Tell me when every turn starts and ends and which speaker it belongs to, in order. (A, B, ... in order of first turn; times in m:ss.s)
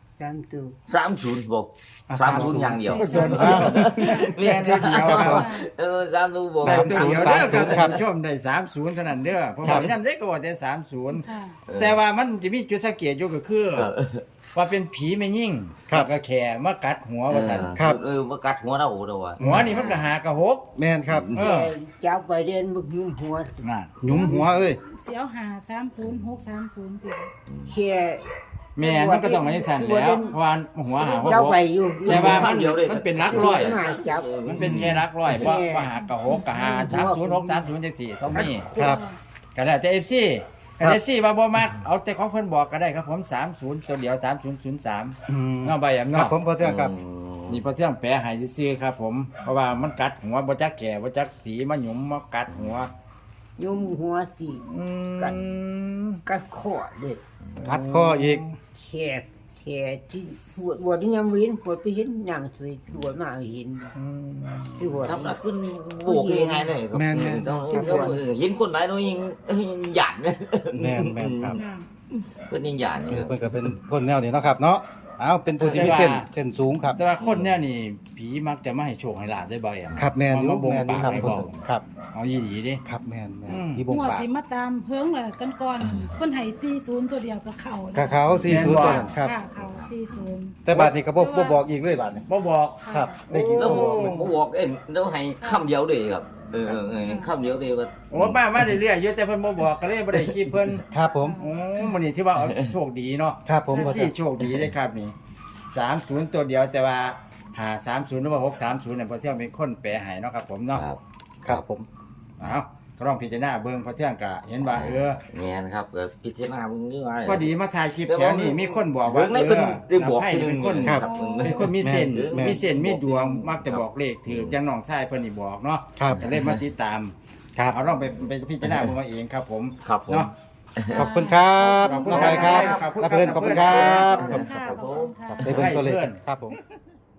0:00.2-0:00.8 A
0:00.9-0:08.0 B
0:02.1-0:04.1 C
0:02.2-0:05.4 D
0:02.9-0:04.3 E
0:04.9-0:05.5 C
0:05.3-0:05.6 E
0:06.6-0:08.0 C
0:06.6-0:13.9 D
0:09.6-0:09.9 B
0:11.2-0:11.6 E
0:11.7-0:12.0 B
0:13.7-0:14.2 B
0:14.5-0:17.8 D
0:17.3-0:19.9 B
0:19.4-0:20.6 D
0:19.7-0:20.0 E
0:20.7-0:21.3 C
0:21.1-0:21.5 B
0:21.3-0:21.7 D
0:21.3-0:24.5 A
0:23.6-0:24.1 D
0:24.0-0:24.8 C
0:24.1-0:27.3 E
0:26.0-0:26.3 B
0:27.5-0:27.7 B
0:27.7-0:28.2 A
0:28.8-0:33.8 D
0:28.8-0:30.4 A
0:31.0-0:32.6 A
0:32.0-0:35.0 B
0:33.2-0:35.9 A
0:34.4-0:38.7 D
0:36.5-0:37.7 A
0:38.3-0:39.0 A
0:38.9-0:39.2 E
0:39.5-0:46.4 D
0:45.3-0:46.9 C
0:46.6-0:47.7 B
0:47.5-0:52.9 D
0:53.6-0:55.5 A
0:54.6-0:56.2 D
0:56.2-0:57.2 A
0:57.6-0:58.6 D
0:57.6-0:58.4 C
0:58.7-1:03.9 A
1:04.0-1:05.0 D
1:04.8-1:05.4 A
1:05.1-1:13.7 B
1:06.0-1:06.8 A
1:06.9-1:07.5 C
1:07.5-1:08.2 A
1:10.7-1:11.6 C
1:11.6-1:11.9 E
1:13.1-1:17.0 C
1:15.6-1:16.3 D
1:17.0-1:22.8 D
1:17.2-1:17.6 B
1:19.9-1:21.8 C
1:22.8-1:24.2 C
1:23.5-1:23.9 D
1:23.9-1:28.3 E
1:25.8-1:26.1 B
1:27.9-1:29.3 C
1:28.3-1:28.8 B
1:28.4-1:29.0 D
1:28.9-1:31.6 E
1:29.6-1:29.9 B
1:30.6-1:32.2 C
1:32.3-1:34.3 D
1:32.8-1:33.2 E
1:32.9-1:34.3 C
1:33.6-1:38.4 B
1:36.9-1:37.3 E
1:38.1-1:45.1 D
1:40.9-1:41.4 C
1:41.0-1:41.5 E
1:43.4-1:44.1 C
1:44.4-1:44.7 B
1:45.7-1:50.8 D
1:50.7-1:51.0 B
1:51.4-1:51.9 C
1:52.4-1:55.2 D
1:54.6-1:57.5 B
1:57.2-2:10.3 D
1:58.1-2:04.6 B
2:01.0-2:01.7 E
2:01.8-2:02.6 C
2:06.0-2:06.2 C
2:06.1-2:06.6 B
2:08.0-2:08.9 B
2:09.8-2:11.1 B
2:10.9-2:12.9 E
2:11.0-2:16.5 C
2:11.6-2:14.2 D
2:12.1-2:13.0 B
2:13.4-2:15.4 E
2:14.0-2:15.2 B
2:15.4-2:16.2 D